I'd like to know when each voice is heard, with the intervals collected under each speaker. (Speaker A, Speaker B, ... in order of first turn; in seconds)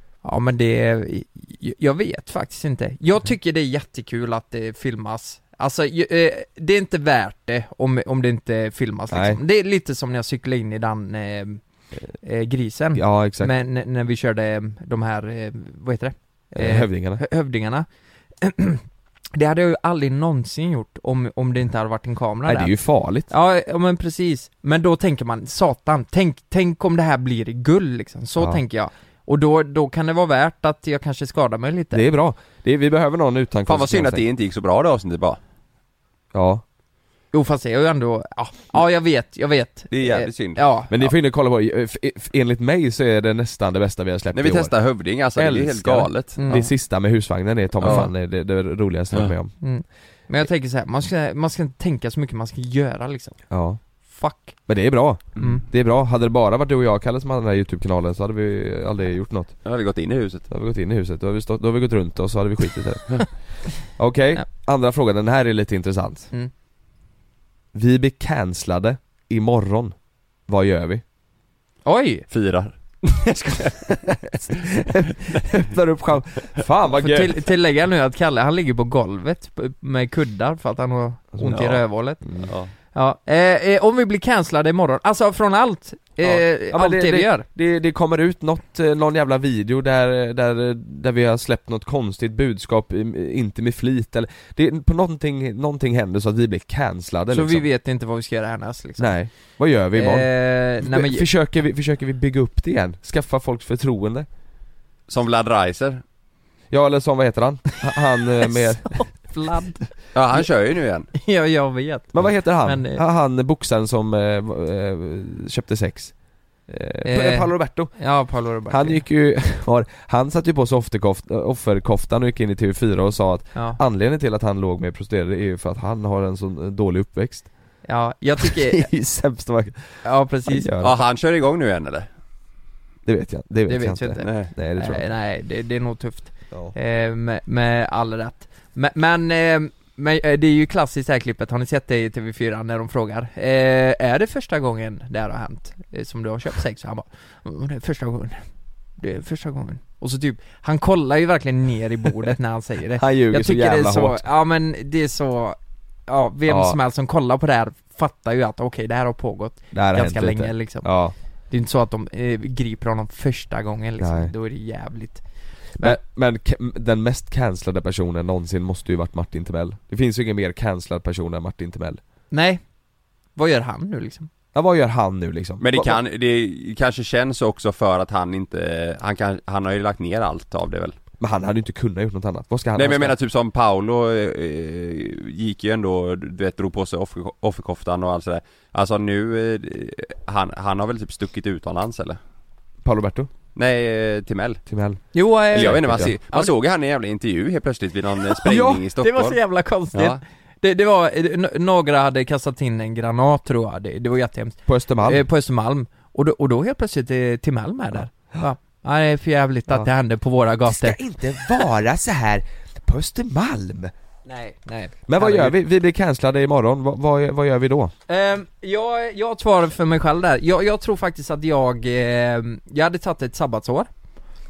Speaker A: 0.2-11.6, 12.2-17.9, 18.4-18.8, 19.4-32.0, 37.3-41.1, 46.4-46.7, 49.6-53.4, 54.0-54.6, 55.4-55.6, 71.8-72.3, 77.0-87.5, 97.3-101.3, 108.4-110.0, 111.1-113.0, 117.0-119.0, 123.5-123.8, 127.8-128.9, 130.0-130.7, 133.7-148.4, 149.0-160.9, 161.5-165.2, 172.3-172.6, 173.3-174.3, 195.1-196.5, 199.0-211.0, 214.2-215.6, 218.1-223.9
Speaker B: 9.1-9.4, 12.9-13.5, 16.6-17.2, 22.4-23.3, 31.9-34.2, 36.3-36.6, 40.9-44.7, 45.4-49.5, 53.5-53.8, 54.7-59.6, 60.5-66.3, 67.7-71.0, 74.3-77.4, 81.4-82.5, 86.2-97.6, 99.0-104.3, 106.7-109.0, 112.1-116.1, 116.7-118.0, 118.7-127.5, 128.4-130.9, 133.1-135.1, 153.0-154.2, 156.5-156.8, 159.7-161.1, 164.0-164.3, 165.8-172.0, 174.5-176.0, 181.2-183.1, 192.8-193.3, 194.7-196.1, 198.4-198.8, 204.7-205.2, 210.7-213.9, 215.1-217.9
Speaker C: 33.6-35.4, 39.9-40.6, 44.3-46.6, 47.8-48.1, 55.4-55.6, 59.6-60.5, 72.3-74.0, 82.5-82.7, 105.1-106.0, 110.1-111.1, 130.8-132.1, 134.2-134.5, 175.6-180.9, 182.7-192.2, 193.6-194.6, 195.5-199.4, 199.9-200.2